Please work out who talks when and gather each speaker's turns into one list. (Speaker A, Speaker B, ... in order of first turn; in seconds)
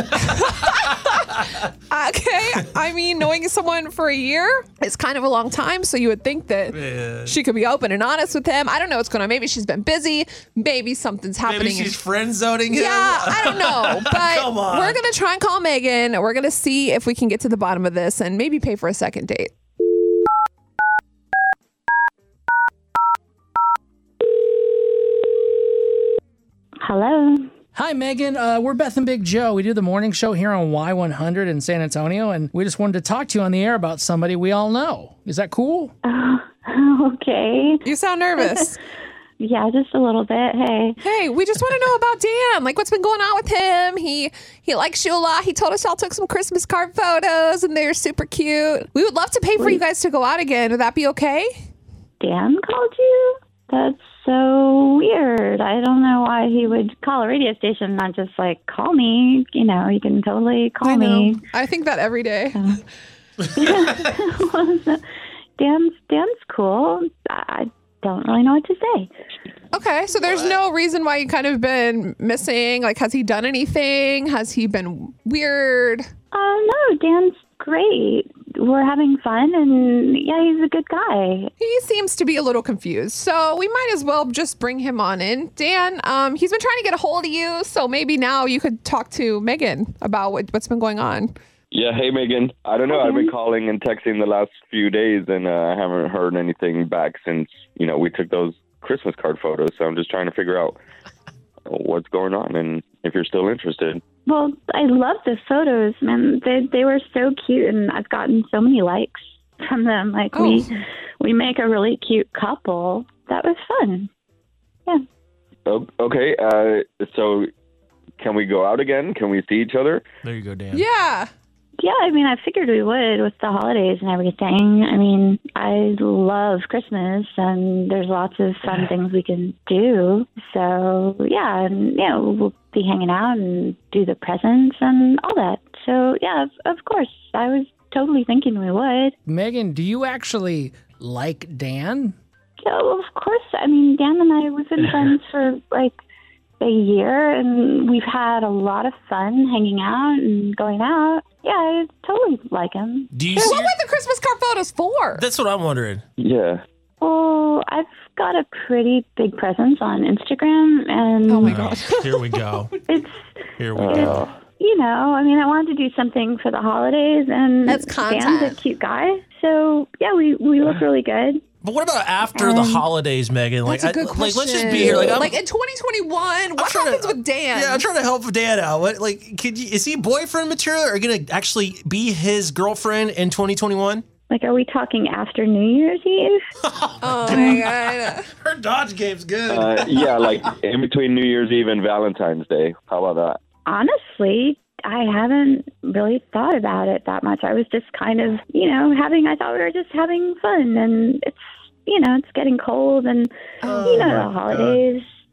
Speaker A: 0.1-1.1, 1.9-12.0, 12.7-19.5, 37.9-38.8, 41.0-51.5, 60.8-62.6, 69.7-76.1, 81.6-91.3, 110.3-110.7, 120.7-121.3, 153.4-155.2, 161.3-162.3, 167.6-168.6, 173.7-177.9, 187.0-188.2, 203.6-203.9
Speaker B: 6.7-7.4, 11.4-15.0, 120.2-120.8, 153.1-153.8, 155.2-156.0, 161.4-162.7, 163.6-164.3, 171.6-175.4, 176.6-184.0, 186.7-190.5, 203.7-204.8
Speaker C: 26.8-27.5, 36.0-37.9, 39.4-41.0, 52.2-61.4, 62.5-62.8, 63.5-65.0, 65.6-69.1, 76.3-81.5, 92.9-93.3, 104.3-114.1, 121.8-139.2, 142.6-145.9, 146.6-153.6, 157.0-161.6, 162.9-163.2, 163.8-171.4, 172.3-172.9, 184.3-186.4, 193.7-205.0
Speaker D: 27.8-35.9, 139.3-142.2
Speaker E: 91.7-100.8, 101.7-104.0, 115.7-117.5, 118.2-120.0, 156.2-156.6, 163.8-164.3, 189.5-193.4